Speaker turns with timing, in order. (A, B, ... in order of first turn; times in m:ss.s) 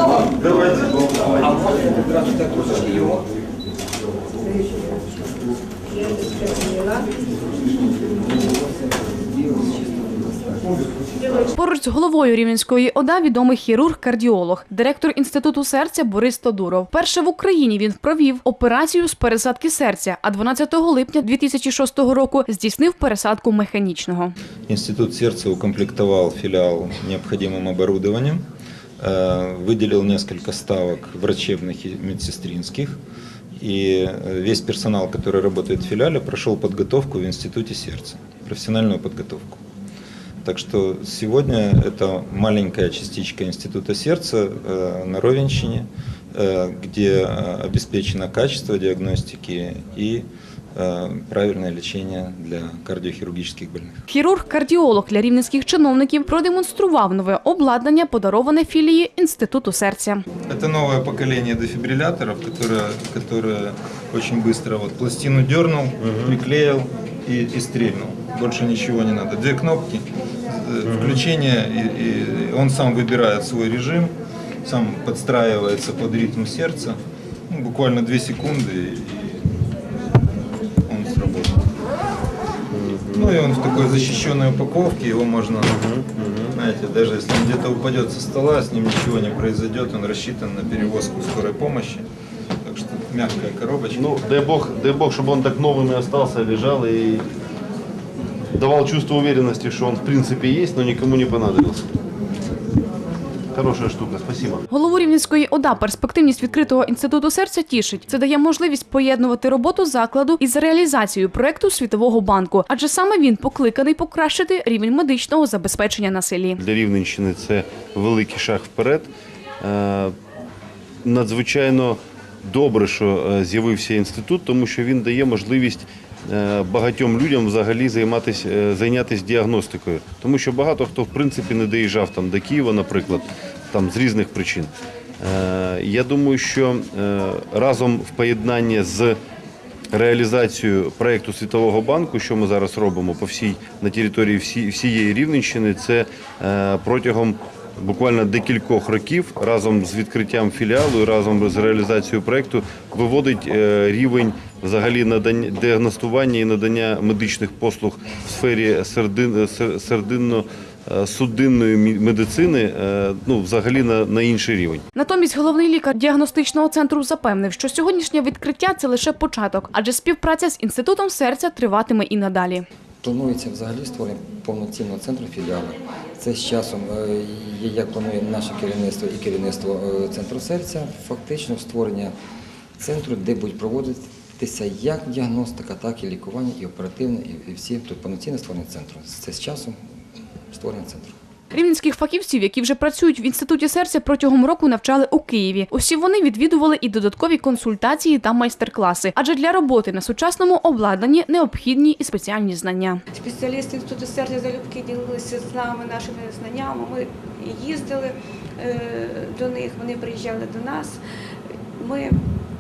0:02.2-0:03.0 A
0:09.5-0:10.2 A
0:11.5-0:24.3 B
0:24.7-0:28.4 C
0:29.0-0:33.0 C
0:33.6-0:39.6 C
0:40.4-0:54.0 C
0:54.1-1:00.2 B
1:00.5-1:14.1 C
1:06.0-1:06.3 D
1:10.8-1:11.2 D
1:14.6-1:17.0 C
1:17.5-1:19.6 C
1:20.9-1:21.6 C
1:22.7-1:23.4 D
1:23.1-1:25.8 C
1:25.6-1:26.6 D
1:26.5-1:32.0 C
1:32.6-1:34.1 C
1:33.9-1:37.3 D
1:38.5-1:41.9 D
1:43.5-1:44.6 D
1:44.7-1:56.6 B
1:56.6-2:00.2 D
2:01.0-2:19.2 D
2:19.9-2:44.8 D
2:44.9-2:52.6 B
2:53.0-3:02.1 A
3:02.8-3:09.8 A
3:10.5-3:11.1 A
3:11.5-3:23.0 B
3:23.1-3:31.0 E
3:31.8-3:32.2 E